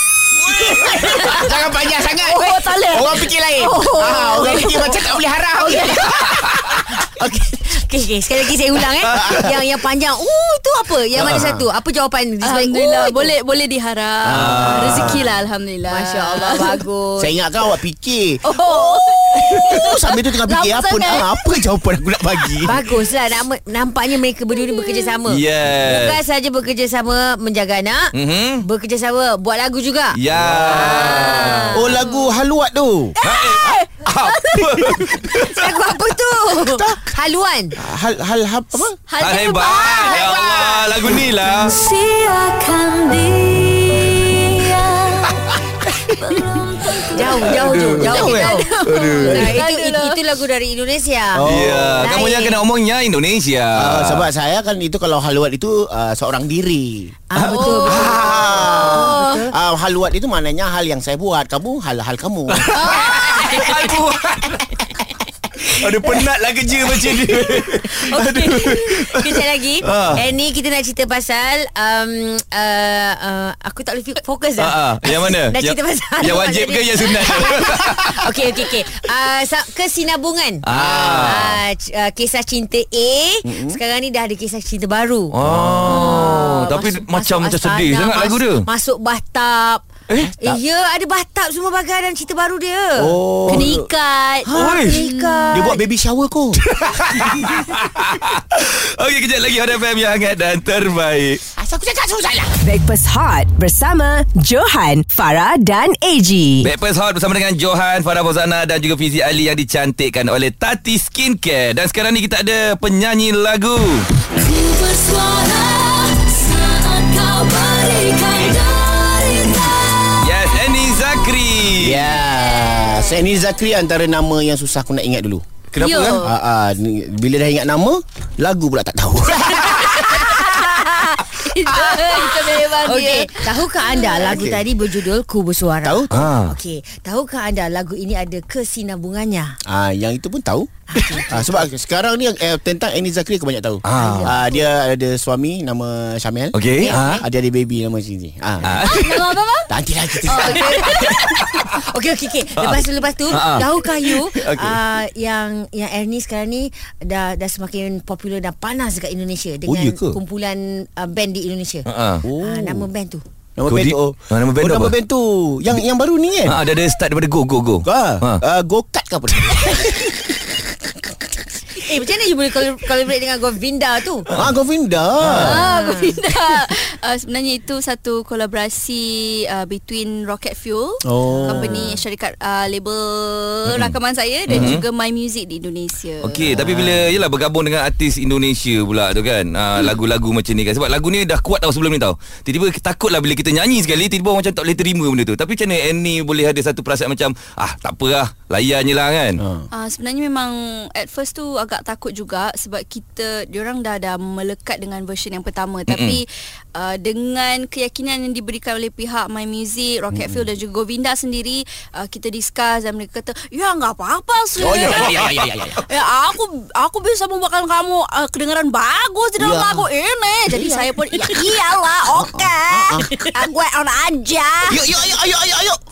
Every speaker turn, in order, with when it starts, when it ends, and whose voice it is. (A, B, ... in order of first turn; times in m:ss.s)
0:00.4-0:07.4 A
0:00.5-0:01.6 B
0:02.1-0:06.4 B
0:06.8-0:13.3 C
0:09.1-0:09.6 A
0:10.8-0:11.1 B
0:11.2-0:11.4 D
0:11.2-0:11.6 A
0:12.4-0:16.8 B
0:14.2-0:15.3 A
0:14.3-0:15.2 D
0:15.9-0:17.3 C
0:17.2-0:22.8 A
0:18.4-0:21.6 B
0:22.4-0:22.8 B
0:22.6-0:30.2 C
0:24.6-0:25.2 B
0:25.3-0:26.2 D
0:28.1-0:28.6 D
0:30.1-0:31.9 D
0:30.4-0:30.9 A
0:30.7-0:31.8 C
0:30.9-0:32.3 B
0:31.7-0:33.1 A
0:33.2-0:36.8 B
0:33.2-0:35.7 D
0:35.4-0:37.8 C
0:36.7-0:37.2 A
0:37.8-0:39.0 A
0:39.1-0:45.4 B
0:39.2-0:41.8 D
0:46.1-0:47.5 B
0:47.0-0:52.6 C
0:47.2-0:49.6 D
0:48.0-0:50.2 B
0:49.2-0:49.6 A
0:51.3-0:52.2 A
0:51.4-0:54.3 D
0:53.7-0:57.2 A
0:57.3-0:59.5 C
0:57.3-0:59.0 D
0:57.4-0:58.2 B
0:58.0-1:02.9 A
0:58.9-0:59.4 B
1:02.5-1:04.7 D
1:02.7-1:03.9 C
1:05.6-1:10.2 D
1:07.1-1:29.9 C
1:14.6-1:18.6 D
1:20.6-1:21.6 D
1:20.7-1:21.2 A
1:23.4-1:23.8 A
1:25.3-1:28.7 D
1:25.4-1:26.3 A
1:30.2-1:30.6 A
1:30.4-1:33.2 C
1:33.0-1:33.9 A
1:33.4-1:35.8 B
1:34.4-1:35.8 C
1:34.5-1:35.0 D
1:35.5-1:36.6 A
1:36.6-1:41.4 D
1:41.6-1:42.5 A
1:42.6-1:46.7 E
1:46.6-1:54.1 D
1:54.4-2:00.2 B
2:00.2-2:02.1 D
2:01.8-2:05.4 A
2:02.5-2:03.2 B
2:05.7-2:06.3 D
2:05.8-2:06.3 B
2:06.2-2:10.8 A
2:10.1-2:14.3 B
2:11.7-2:19.6 C
2:14.2-2:14.7 A
2:15.8-2:16.3 A
2:16.1-2:16.6 D
2:19.6-2:29.0 A
2:20.9-2:21.6 C
2:23.8-2:24.4 D
2:24.0-2:24.6 C
2:26.5-2:27.2 D
2:26.8-2:27.2 C
2:28.6-2:29.4 D
2:28.8-2:29.7 B
2:29.7-2:31.2 A
2:30.2-2:31.4 B
2:30.3-2:43.2 C
2:32.6-2:34.8 D
2:39.6-2:40.2 A
2:41.8-2:42.2 D
2:42.2-2:42.9 A
2:43.6-2:46.6 A
2:43.7-2:44.9 D
2:46.4-2:48.4 D
2:47.8-2:51.1 A
2:51.8-2:54.3 C
2:54.3-2:55.7 A
2:55.2-2:55.5 D
2:55.3-2:56.2 C
2:55.4-3:06.5 B
3:01.0-3:01.9 A
3:01.3-3:01.8 C
3:03.7-3:04.0 D
3:04.5-3:04.8 D
3:04.5-3:04.8 A
3:06.2-3:19.4 D
3:06.5-3:07.1 A
3:19.4-3:19.6 A
3:19.7-3:35.2 B
3:25.9-3:26.2 D
3:30.1-3:30.5 A
3:34.6-3:35.8 A
3:34.7-3:35.8 D
3:35.8-3:44.8 B
3:39.4-3:39.8 A
3:40.5-3:40.8 A
3:42.2-3:43.2 A
3:43.0-3:43.3 C
3:44.7-3:45.8 A